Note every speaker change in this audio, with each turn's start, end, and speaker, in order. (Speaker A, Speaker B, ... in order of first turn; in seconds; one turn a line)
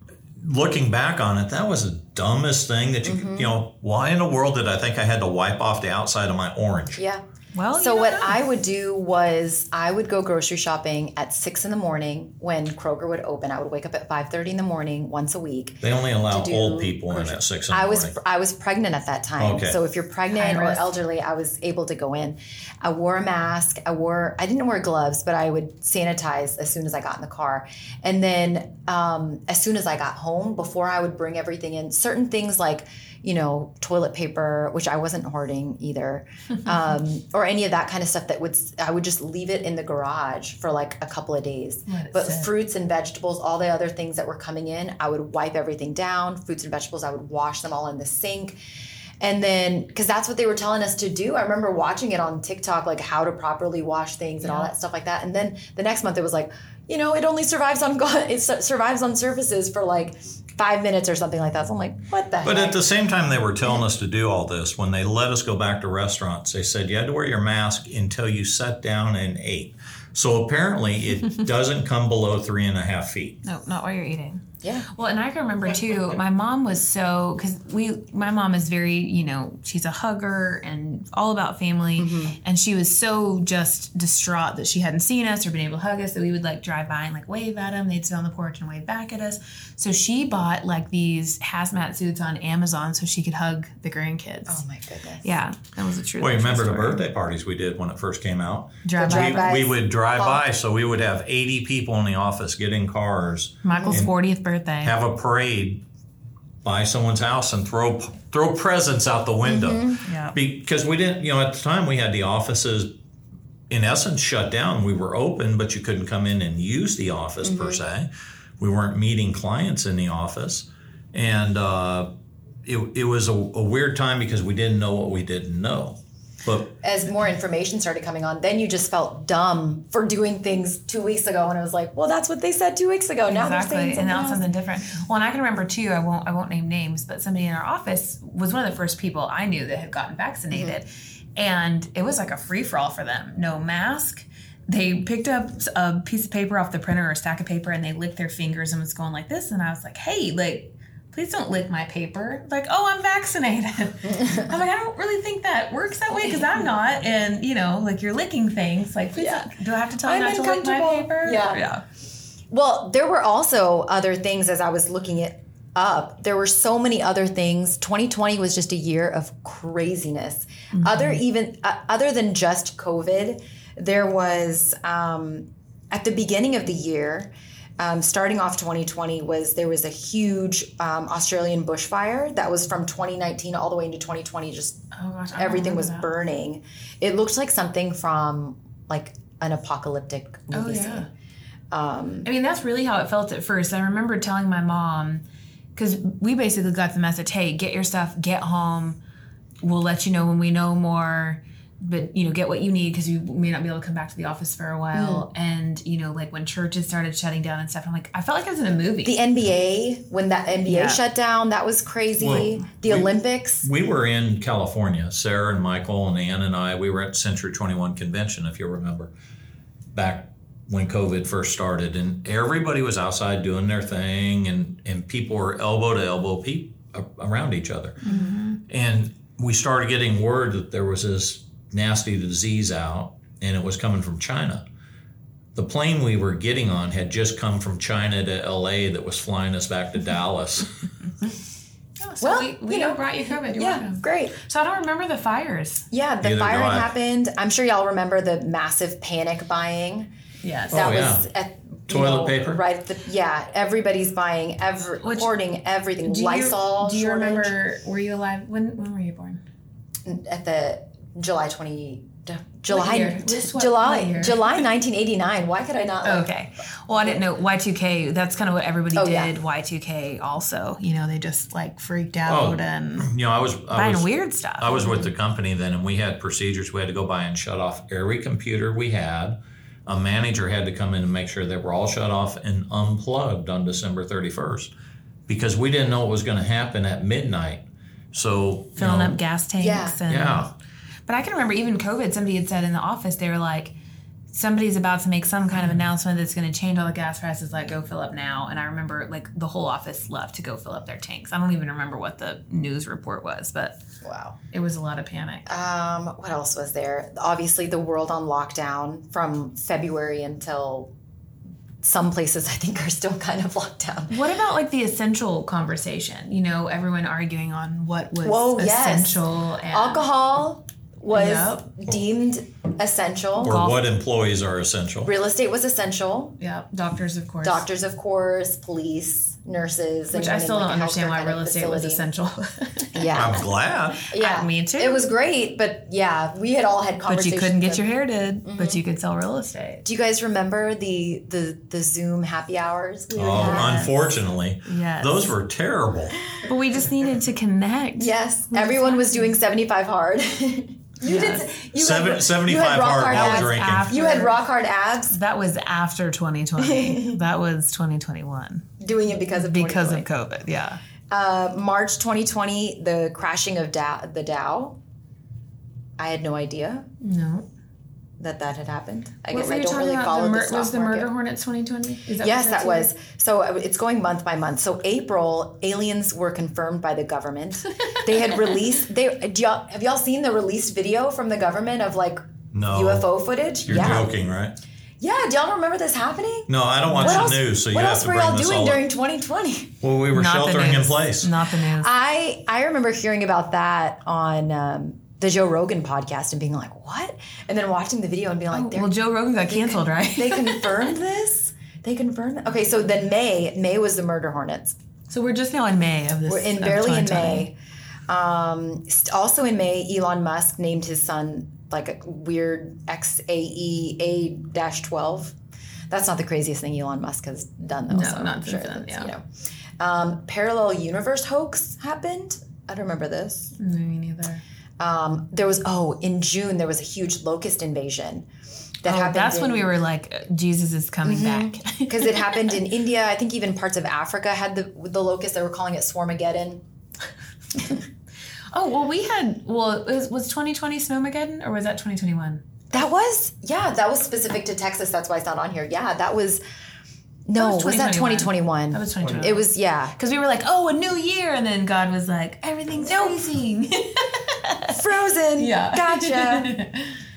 Speaker A: 0.4-7.0
Speaker B: 3.0-3.5
Speaker B: 7.0-48.6
Speaker C: 7.5-8.4
Speaker A: 15.8-18.1
Speaker A: 19.4-19.8
Speaker C: 20.3-20.9
Speaker C: 41.9-42.5
Speaker B: 49.2-62.8
Speaker C: 54.4-54.7
Speaker A: 62.4-73.4
Speaker C: 73.4-94.6
Speaker B: 74.6-74.9
Speaker B: 82.0-82.4
Speaker B: 94.5-95.4
Speaker C: 95.2-97.0
Speaker A: 96.2-104.2
Speaker C: 98.8-99.6
Speaker B: 99.0-100.4
Speaker C: 103.6-105.0
Speaker B: 103.8-104.0
Speaker A: 104.8-105.8
Speaker A: 106.6-112.9
Speaker B: 109.4-110.0
Speaker C: 110.0-110.4
Speaker A: 113.7-122.1
Speaker B: 117.4-117.8
Speaker A: 122.7-126.8
Speaker B: 126.8-134.4
Speaker C: 133.3-161.8
Speaker B: 140.5-140.8
Speaker B: 159.2-159.5
Speaker B: 160.0-161.6
Speaker B: 162.5-184.8
Speaker C: 170.7-171.2
Speaker C: 184.9-186.1
Speaker B: 185.4-191.1
Speaker C: 190.5-191.1
Speaker B: 191.7-192.3
Speaker C: 192.2-195.2
Speaker C: 195.8-199.0
Speaker C: 199.6-209.2
Speaker B: 204.9-205.3
Speaker B: 209.0-213.7
Speaker C: 210.7-211.0
Speaker A: 212.2-219.1
Speaker A: 219.9-228.0
Speaker C: 228.0-228.6
Speaker B: 228.0-228.4
Speaker A: 228.7-234.6
Speaker A: 235.6-240.7
Speaker C: 242.0-245.9
Speaker B: 242.2-244.4
Speaker B: 245.9-250.1
Speaker A: 246.2-246.9
Speaker C: 250.4-250.8
Speaker A: 250.7-251.3
Speaker B: 250.7-257.5
Speaker A: 251.9-252.6
Speaker C: 255.0-255.3
Speaker C: 256.0-259.4
Speaker B: 260.1-266.3
Speaker C: 262.7-264.5
Speaker C: 266.0-273.1
Speaker B: 268.9-269.3
Speaker A: 272.3-284.7
Speaker C: 273.7-275.1
Speaker B: 274.8-275.0
Speaker A: 285.3-289.2
Speaker C: 288.8-290.5
Speaker B: 289.6-290.0
Speaker A: 290.1-290.5
Speaker C: 291.1-293.8
Speaker C: 294.3-303.8
Speaker B: 304.0-304.4
Speaker C: 304.5-305.5
Speaker B: 305.5-310.9
Speaker B: 311.8-314.1
Speaker C: 314.1-320.0
Speaker B: 318.2-323.7
Speaker C: 321.1-321.6
Speaker A: 323.4-325.1
Speaker C: 323.5-323.8
Speaker B: 325.0-326.4
Speaker C: 326.4-327.7
Speaker B: 327.4-332.0
Speaker C: 330.1-333.1
Speaker B: 332.9-333.4
Speaker A: 333.1-334.1
Speaker B: 334.1-337.9
Speaker C: 334.1-335.1
Speaker C: 337.1-339.9
Speaker B: 338.4-338.8
Speaker B: 339.8-344.2
Speaker C: 343.1-345.4
Speaker A: 343.2-346.2
Speaker C: 346.4-349.4
Speaker B: 348.0-355.2
Speaker C: 351.0-351.5
Speaker A: 351.8-354.0
Speaker C: 353.1-354.4
Speaker C: 355.1-358.7
Speaker B: 356.6-357.2
Speaker B: 358.8-360.1
Speaker C: 359.3-360.8
Speaker B: 361.1-364.8
Speaker B: 366.0-366.9
Speaker C: 367.0-367.5
Speaker B: 368.2-371.1
Speaker C: 369.3-372.9
Speaker B: 372.2-384.1
Speaker A: 382.5-383.1
Speaker A: 383.6-384.6
Speaker B: 385.0-389.8
Speaker A: 386.5-388.8
Speaker C: 386.9-387.3
Speaker A: 389.8-391.3
Speaker C: 390.1-391.9
Speaker B: 391.8-398.9
Speaker C: 398.5-400.7
Speaker B: 399.5-404.8
Speaker C: 405.1-407.5
Speaker B: 406.3-407.6
Speaker B: 408.1-415.4
Speaker B: 415.9-419.3
Speaker C: 417.9-419.1
Speaker B: 419.8-423.6
Speaker C: 423.6-424.4
Speaker B: 424.8-428.3
Speaker B: 428.8-429.7
Speaker C: 428.9-432.4
Speaker B: 431.1-436.6
Speaker C: 438.5-442.4
Speaker B: 442.7-446.4
Speaker B: 447.3-450.0
Speaker C: 447.4-454.7
Speaker B: 452.7-453.2
Speaker B: 454.7-456.6
Speaker C: 455.4-456.9